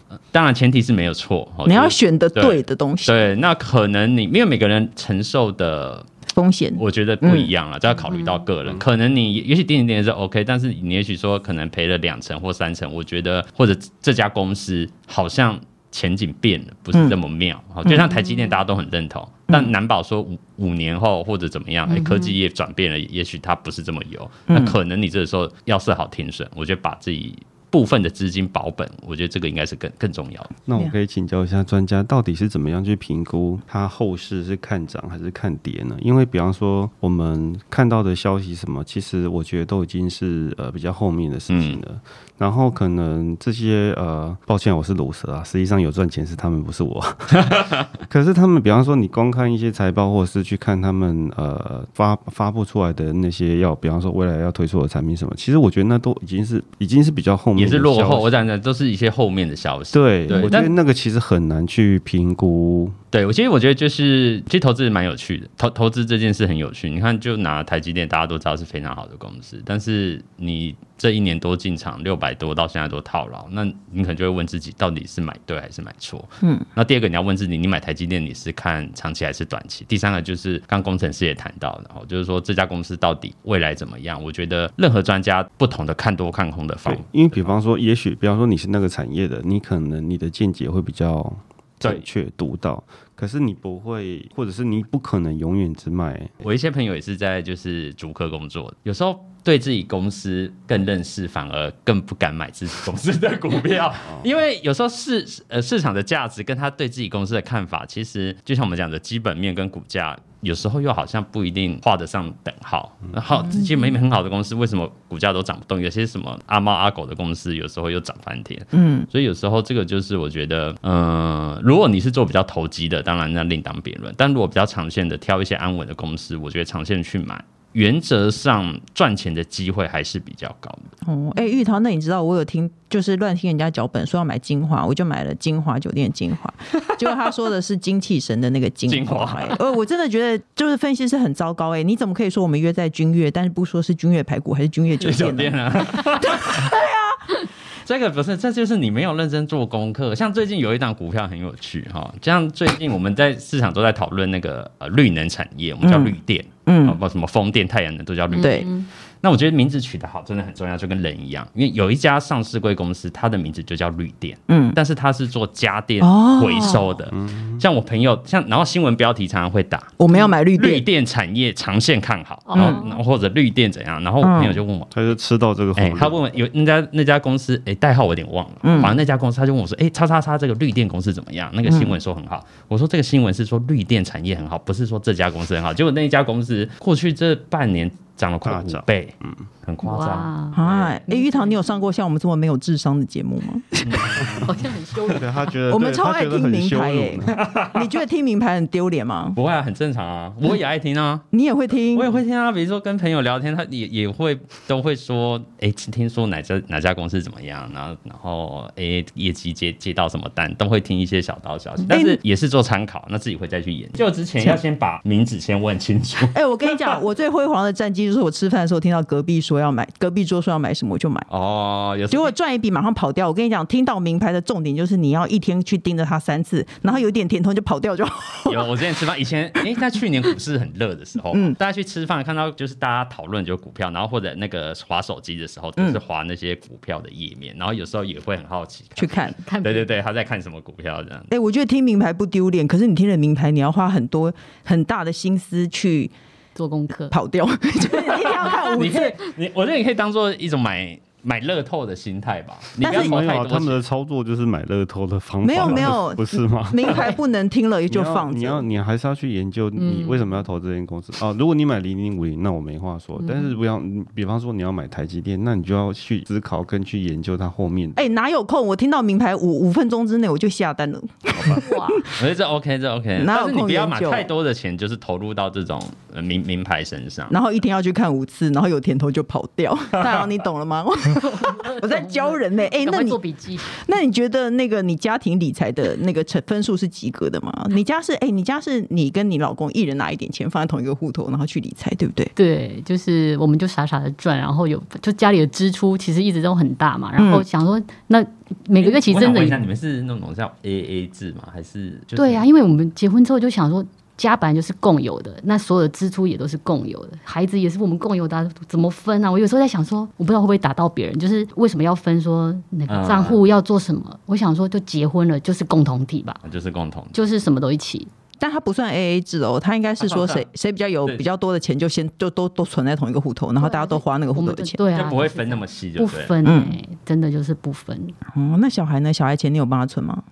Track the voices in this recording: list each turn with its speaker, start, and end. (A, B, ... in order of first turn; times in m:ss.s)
0:00.3-0:06.1 A
0:01.6-0:03.2 B
0:06.3-0:07.5 B
0:06.8-0:30.5 A
0:07.9-0:08.4 C
0:17.8-0:18.2 B
0:21.9-0:22.2 C
0:24.5-0:24.8 B
0:30.6-0:58.3 D
0:41.5-0:41.8 A
0:57.6-1:00.7 A
0:59.9-1:03.0 D
1:03.1-1:27.5 A
1:26.8-1:36.3 D
1:36.4-2:10.9 A
1:58.7-1:59.1 B
2:11.0-2:27.2 B
2:18.9-2:19.6 A
2:25.0-2:26.7 A
2:27.8-2:50.0 A
2:35.8-2:37.0 B
2:38.3-2:38.9 C
2:38.4-2:38.7 B
2:44.5-2:44.8 B
2:46.0-2:46.9 B
2:47.1-2:47.6 D
2:50.0-2:50.8 B
2:50.5-2:54.9 A
2:52.5-2:53.0 C
2:52.5-2:52.8 B
2:54.2-2:54.6 B
2:54.9-2:56.2 D
2:55.8-3:11.0 A
2:58.6-2:59.0 B
3:01.6-3:02.0 B
3:08.4-3:09.4 D
3:09.8-3:11.7 C
3:10.5-3:14.4 B
3:13.8-3:14.5 A
3:14.4-3:15.5 C
3:15.0-3:17.4 D
3:15.7-3:19.4 B
3:17.3-3:18.0 A
3:19.4-3:21.3 A
3:21.3-3:22.1 B
3:21.9-3:36.3 A
3:31.9-3:32.2 B
3:36.3-3:41.3 B
3:41.3-3:42.3 A
3:42.1-3:48.8 B
3:48.5-4:01.3 A
3:59.0-3:59.4 B
3:59.5-3:59.9 C
4:01.3-4:06.1 B
4:06.6-4:07.2 C
4:07.1-4:09.2 B
4:08.2-4:08.5 C
4:08.3-4:13.8 A
4:12.8-4:13.2 B
4:12.8-4:17.2 D
4:15.4-4:18.6 B
4:17.9-4:28.0 D
4:19.8-4:20.3 C
4:23.2-4:23.5 C
4:28.0-4:32.1 B
4:31.4-4:37.3 A
4:31.5-4:32.0 C
4:33.2-4:34.3 B
4:37.3-4:52.3 B
4:41.2-4:43.8 C
4:52.4-4:59.6 C
4:57.2-4:57.4 B
4:58.8-5:02.5 A
5:02.2-5:16.4 C
5:12.9-5:13.4 A
5:16.4-5:17.2 A
5:17.1-5:18.1 C
5:18.4-5:24.8 B
5:20.0-5:20.5 A
5:23.6-5:28.2 C
5:24.9-5:26.4 A
5:26.4-5:26.8 B
5:28.3-5:30.2 B